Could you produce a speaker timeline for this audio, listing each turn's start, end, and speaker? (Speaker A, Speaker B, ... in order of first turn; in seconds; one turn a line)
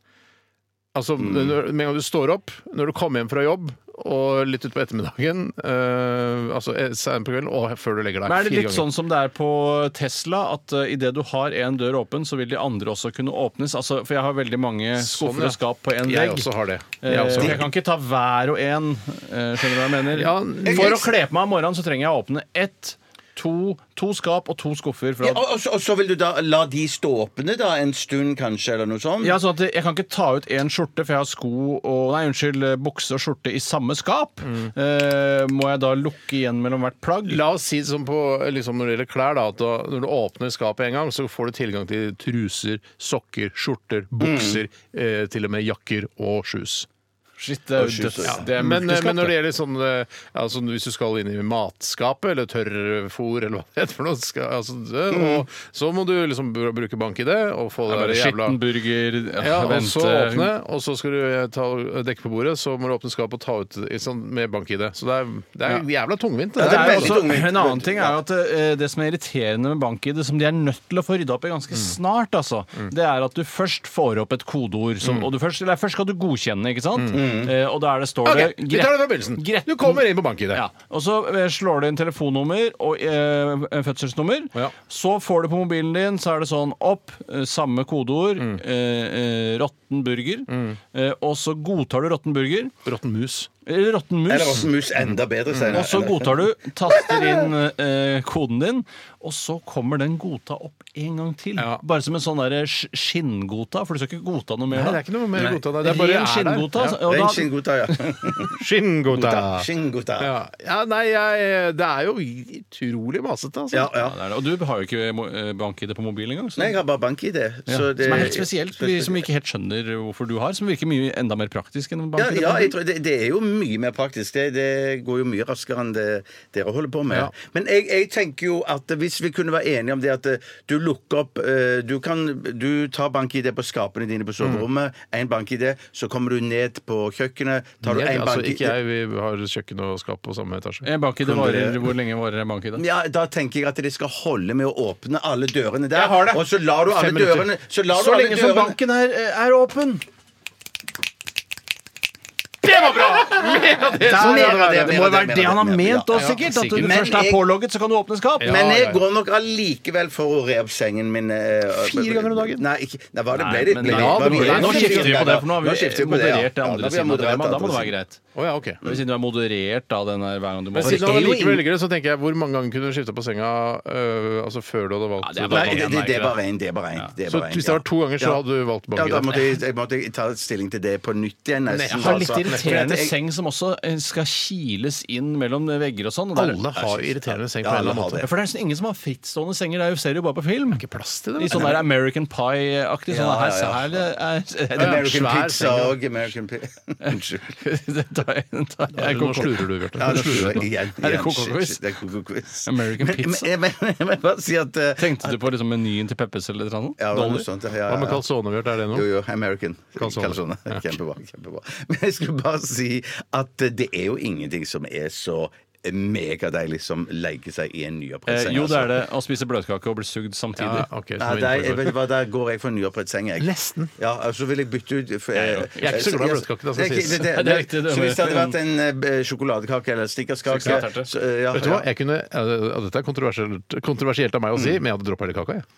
Speaker A: 0.9-8.9
Speaker B: 1.2-1.6
Speaker C: 8.2-25.4
Speaker A: 15.0-17.7
Speaker A: 20.1-21.1
Speaker B: 20.7-21.1
Speaker B: 25.2-29.4
Speaker C: 29.2-37.4
Speaker A: 34.5-34.7
Speaker A: 37.3-46.9
Speaker B: 44.2-44.6
Speaker C: 47.4-49.4
Speaker B: 47.8-48.5
Speaker A: 48.2-58.6
Speaker B: 55.1-55.5
Speaker C: 57.9-60.5
Speaker A: 59.4-67.3
Speaker B: 66.6-68.2
Speaker C: 66.6-92.7
Speaker A: 75.0-75.3
Speaker A: 77.0-77.3
Speaker B: 77.1-77.5
Speaker A: 78.2-80.7
Speaker A: 90.5-90.8
Speaker A: 92.8-93.5
Speaker C: 93.7-94.7
Speaker B: 94.3-97.5
Speaker A: 95.5-95.9
Speaker C: 95.7-105.0
Speaker A: 101.6-101.8
Speaker A: 104.7-107.0
Speaker B: 105.4-105.6
Speaker C: 105.8-108.0
Speaker B: 107.0-108.6
Speaker A: 108.5-109.7
Speaker B: 109.1-110.3
Speaker A: 110.2-113.9
Speaker B: 113.7-114.2
Speaker C: 114.0-116.8
Speaker B: 116.6-119.2
Speaker C: 117.7-122.7
Speaker B: 122.2-138.8
Speaker A: 137.8-140.9
Speaker C: 140.8-142.8
Speaker B: 141.2-141.9
Speaker B: 142.8-148.8
Speaker C: 145.9-146.4
Speaker C: 146.9-150.0
Speaker A: 152.6-155.0
Speaker C: 152.7-158.6
Speaker B: 154.1-156.2
Speaker A: 156.1-157.0
Speaker B: 156.8-157.5
Speaker A: 158.4-159.0
Speaker B: 158.4-167.9
Speaker A: 161.7-162.6
Speaker C: 163.3-168.2
Speaker A: 163.8-165.4
Speaker A: 168.3-168.8
Speaker C: 168.8-171.6
Speaker A: 170.7-175.9
Speaker B: 170.8-171.6
Speaker C: 175.2-176.4
Speaker B: 175.5-178.4
Speaker A: 177.3-179.3
Speaker B: 178.9-183.2
Speaker C: 179.3-179.6
Speaker A: 181.7-182.8
Speaker C: 181.9-186.6
Speaker A: 186.4-188.3
Speaker B: 186.8-188.3
Speaker C: 188.2-190.8
Speaker A: 190.7-191.8
Speaker C: 191.4-195.2
Speaker B: 193.1-194.0
Speaker B: 194.8-197.6
Speaker A: 194.8-196.0
Speaker C: 197.1-201.8
Speaker A: 198.9-200.7
Speaker B: 200.0-205.4
Speaker C: 202.6-203.5
Speaker C: 205.0-207.4
Speaker B: 207.0-208.2
Speaker A: 207.9-209.1
Speaker B: 208.9-219.0
Speaker A: 210.0-210.8
Speaker C: 218.3-220.9
Speaker A: 220.6-222.0
Speaker B: 221.2-231.9
Speaker A: 223.4-223.9
Speaker C: 225.3-226.0
Speaker A: 225.8-227.3
Speaker C: 227.2-228.6
Speaker C: 230.5-231.1
Speaker A: 231.5-235.7
Speaker B: 234.6-234.8